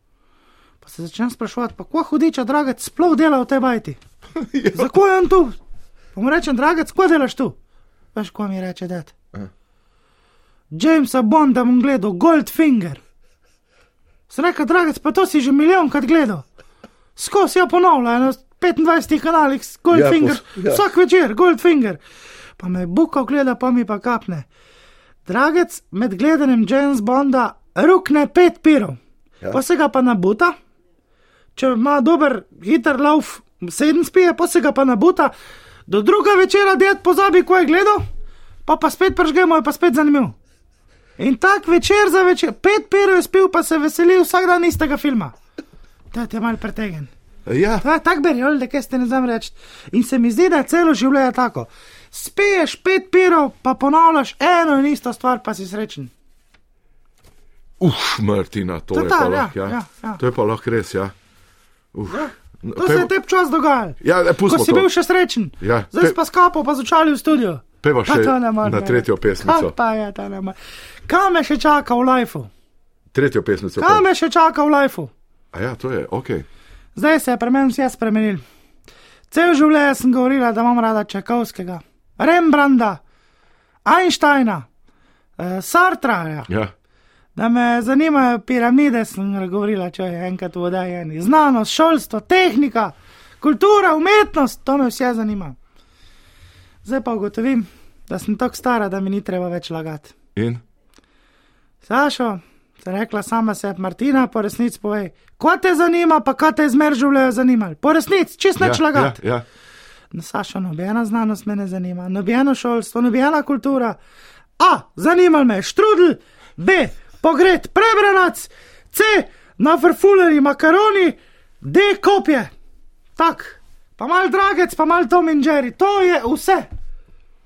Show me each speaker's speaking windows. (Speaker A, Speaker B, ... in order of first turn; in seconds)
Speaker A: 0.8-4.0, 4.7-5.6, 6.2-7.6, 8.2-9.1, 10.7-13.0, 14.3-16.4, 17.2-22.0, 22.6-24.5, 25.3-29.0, 29.5-30.6, 31.6-35.3, 35.9-38.0, 38.7-40.4, 41.2-45.3, 46.1-47.1, 47.8-56.1, 58.9-60.2, 62.1-70.6, 71.1-72.5, 73.8-75.1, 77.0-78.4, 79.3-83.0, 83.9-84.7, 85.4-86.5, 87.4-95.6, 96.8-100.1, 101.8-109.2, 110.1-114.0, 114.6-122.5, 123.2-126.7
Speaker B: 4.3-5.0, 19.9-20.8, 47.5-47.9, 57.8-61.1, 61.9-63.1, 64.0-64.9, 65.6-66.2, 67.8-69.7, 73.1-74.0, 75.5-76.5, 86.5-86.7, 100.3-100.6, 108.6-109.5